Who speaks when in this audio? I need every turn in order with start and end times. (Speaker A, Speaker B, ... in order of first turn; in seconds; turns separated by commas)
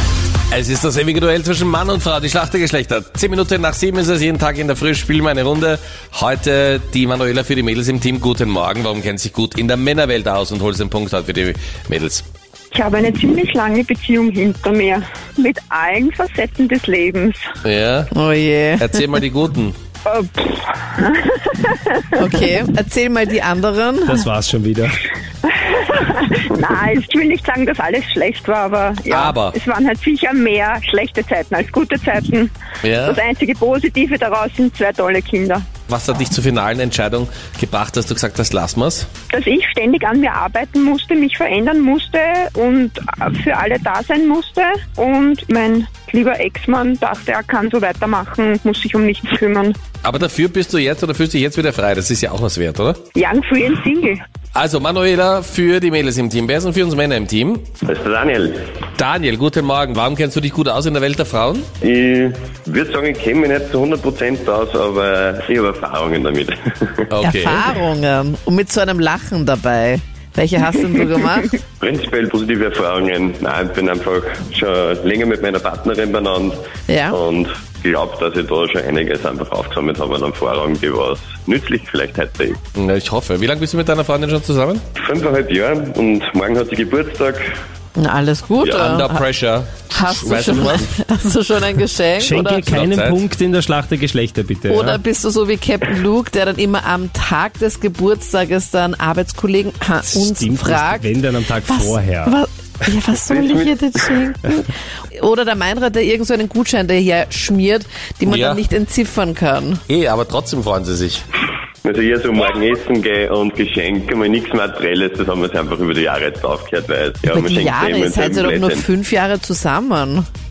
Speaker A: 0.5-12.2, Speaker B: 12.7-17.4, Speaker A: 17.6-18.1, Speaker C: 18.1-19.0, Speaker A: 18.8-19.7, Speaker B: 20.1-22.2, Speaker C: 22.1-24.2, Speaker D: 24.1-25.0, Speaker B: 25.4-35.6, Speaker A: 29.1-29.5, Speaker A: 32.8-33.2, Speaker A: 35.9-39.1, Speaker B: 39.3-49.8, Speaker A: 50.0-53.0, Speaker B: 53.1-54.2, Speaker A: 54.5-57.7, Speaker E: 57.8-58.5, Speaker A: 59.0-61.7, Speaker E: 61.8-67.0, Speaker A: 67.1-67.7, Speaker C: 67.2-71.6, Speaker E: 71.8-76.6, Speaker C: 76.9-77.2, Speaker E: 77.1-82.6, Speaker A: 82.7-84.8, Speaker E: 85.0-87.4, Speaker C: 88.0-89.2, Speaker A: 88.6-90.9, Speaker C: 89.9-92.7, Speaker D: 92.2-95.0, Speaker A: 92.3-93.2, Speaker C: 94.7-101.1, Speaker D: 100.1-102.3, Speaker C: 101.7-109.8, Speaker E: 103.2-104.0, Speaker A: 108.2-108.6, Speaker A: 109.9-111.2, Speaker E: 111.8-118.8, Speaker C: 117.3-120.3